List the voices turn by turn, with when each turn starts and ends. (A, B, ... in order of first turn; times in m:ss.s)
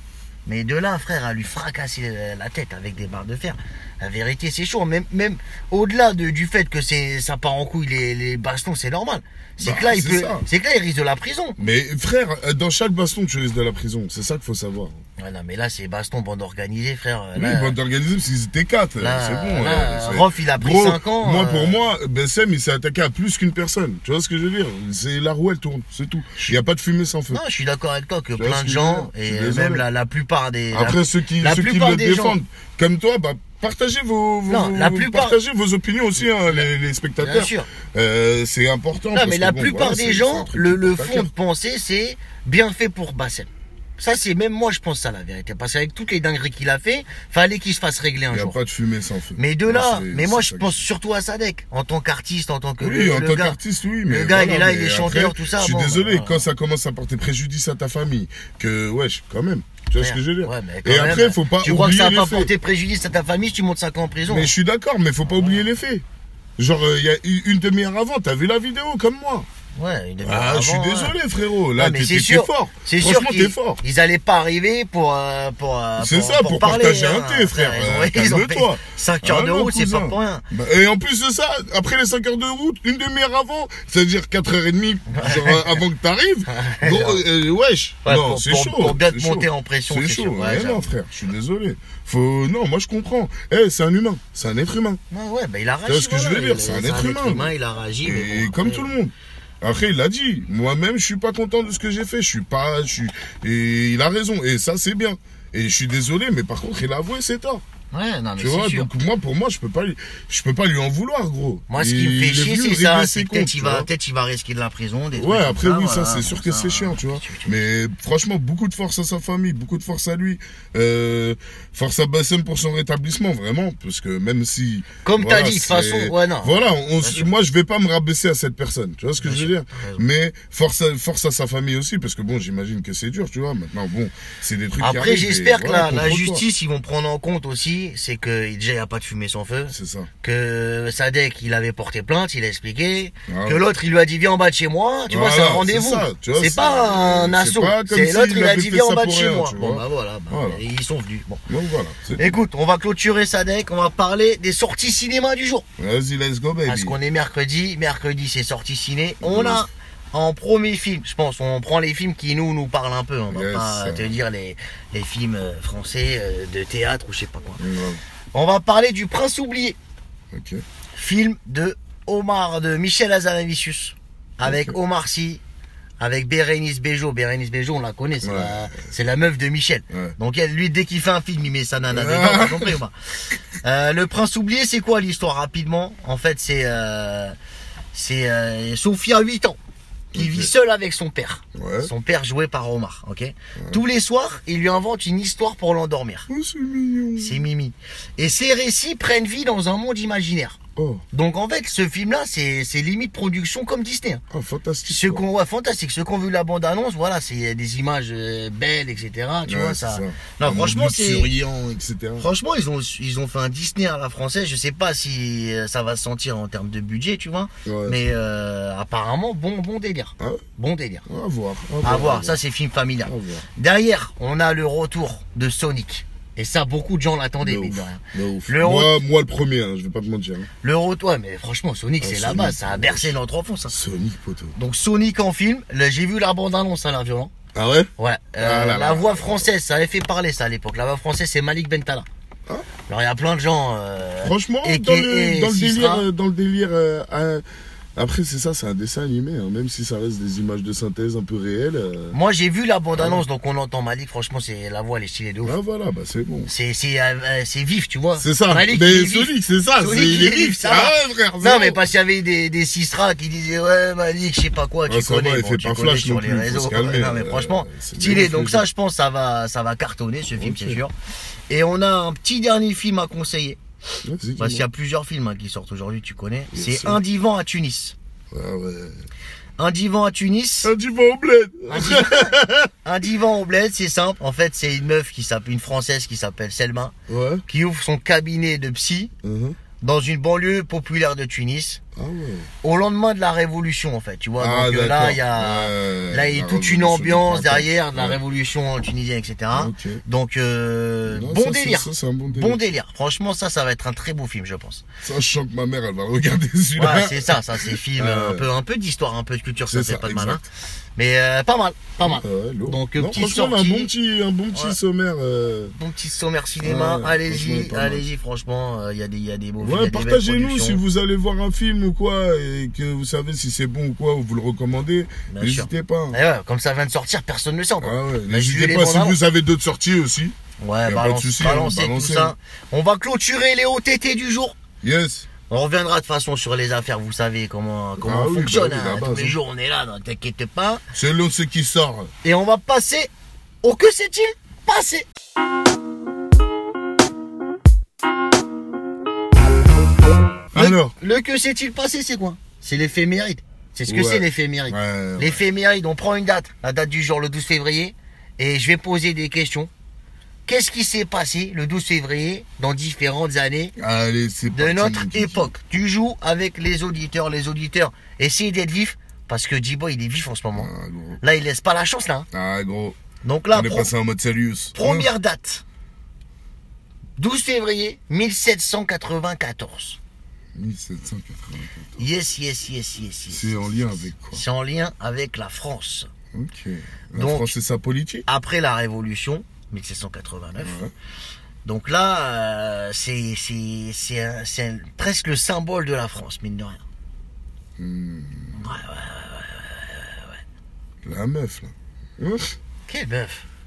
0:00.5-0:11.6 A
0:09.6-0:10.5 B
0:11.6-0:15.0 B
0:15.2-0:17.8 A
0:17.4-0:27.4 B
0:19.0-0:21.8 A
0:27.3-0:32.4 A
0:28.4-0:29.8 B
0:30.7-0:41.3 B
0:34.5-0:35.4 A
0:37.2-0:37.7 A
0:39.1-0:48.6 A
0:48.3-0:50.8 B
0:49.4-0:56.4 A
0:52.8-1:02.5 B
1:00.0-1:04.5 A
1:04.3-1:06.0 B
1:06.6-1:09.5 B
1:09.8-1:11.2 A
1:10.2-1:13.8 B
1:11.8-1:20.4 A
1:16.0-1:35.0 B
1:25.1-1:25.8 A
1:26.5-1:27.2 A
1:28.0-1:30.9 A
1:35.1-1:38.9 A
1:35.9-1:47.6 B
1:47.9-1:48.9 A
1:48.4-1:53.9 B
1:51.7-1:57.7 A
1:55.2-2:16.4 B
2:05.0-2:07.3 A
2:09.2-2:10.0 A
2:14.8-2:31.4 A
2:19.7-2:20.1 B
2:23.3-2:23.7 B
2:25.1-2:30.6 B
2:31.5-2:32.4 B
2:32.2-2:35.7 A
2:35.8-2:37.0 B
2:36.7-2:47.6 A
2:39.2-2:39.7 B
2:43.3-2:44.2 B
2:47.6-2:48.0 B
2:48.3-2:49.8 A
2:50.3-2:50.6 B
2:51.0-2:55.4 A
2:54.4-2:54.8 B
2:56.0-3:02.9 A
2:58.2-2:58.8 B
2:59.9-3:00.2 B
3:01.9-3:02.8 B
3:03.6-3:07.4 A
3:07.9-3:09.6 A
3:10.1-3:10.5 B
3:10.1-3:16.3 A
3:11.6-3:11.9 B
3:16.3-3:17.4 B
3:17.2-3:20.6 A
3:20.8-3:21.0 B
3:21.1-3:24.2 A
3:24.3-3:25.2 B
3:24.9-3:31.3 A
3:29.5-3:32.3 B
3:32.2-3:41.1 A
3:37.6-3:38.0 B
3:41.1-3:42.4 B
3:41.8-3:49.0 A
3:43.0-3:43.5 B
3:47.4-3:50.5 B
3:50.6-3:53.8 A
3:52.0-3:53.2 B
3:53.7-3:54.6 B
3:54.6-3:57.3 A
3:57.5-3:59.5 B
3:58.0-4:02.1 A
4:02.9-4:06.1 A
4:04.2-4:07.4 B
4:08.0-4:12.2 B
4:12.1-4:15.6 A
4:13.0-4:13.2 B
4:15.4-4:16.5 B
4:16.5-4:30.9 A
4:18.2-4:21.8 B
4:24.9-4:28.7 B
4:30.4-4:30.8 B
4:31.5-4:33.6 A
4:34.0-4:34.7 B
4:34.4-4:38.0 A
4:36.5-4:37.0 B
4:38.3-4:39.0 B
4:39.6-4:40.7 A
4:40.6-4:42.7 B
4:41.7-4:47.0 A
4:47.1-4:47.4 B
4:47.5-4:49.1 A
4:49.2-4:49.6 B
4:49.8-4:51.8 A
4:52.0-4:52.5 B
4:52.6-5:04.8 A
4:54.4-4:58.2 B
4:59.5-5:00.0 B
5:01.1-5:02.6 B
5:05.0-5:08.5 B
5:06.8-5:13.9 A
5:09.6-5:10.4 B
5:12.0-5:15.8 B
5:15.8-5:20.8 A
5:16.6-5:18.0 B
5:19.6-5:26.2 B
5:25.3-5:29.2 A
5:27.8-5:32.3 B
5:30.6-5:34.6 A
5:34.8-5:35.3 B
5:35.5-5:40.8 A
5:38.0-5:39.4 B
5:40.9-5:42.1 B
5:42.2-5:43.1 A
5:43.6-5:45.1 A
5:50.5-5:51.0 B
5:50.5-5:59.7 A
5:53.9-5:55.4 B
6:00.5-6:03.7 A
6:03.8-6:05.5 B
6:04.5-6:10.7 A
6:10.5-6:11.2 B
6:11.2-6:12.3 A
6:12.3-6:13.0 B
6:13.2-6:13.9 A
6:13.5-6:15.1 B
6:14.8-6:15.6 A
6:17.2-6:20.0 A
6:20.6-6:22.0 B
6:22.0-6:26.1 A
6:23.3-6:24.4 B
6:26.3-6:28.3 B
6:27.2-6:27.5 A
6:28.3-6:30.8 A
6:30.6-6:30.9 B
6:31.6-6:36.8 A
6:37.8-6:38.6 B
6:38.6-6:40.4 A
6:41.0-6:42.6 B
6:42.9-6:43.5 A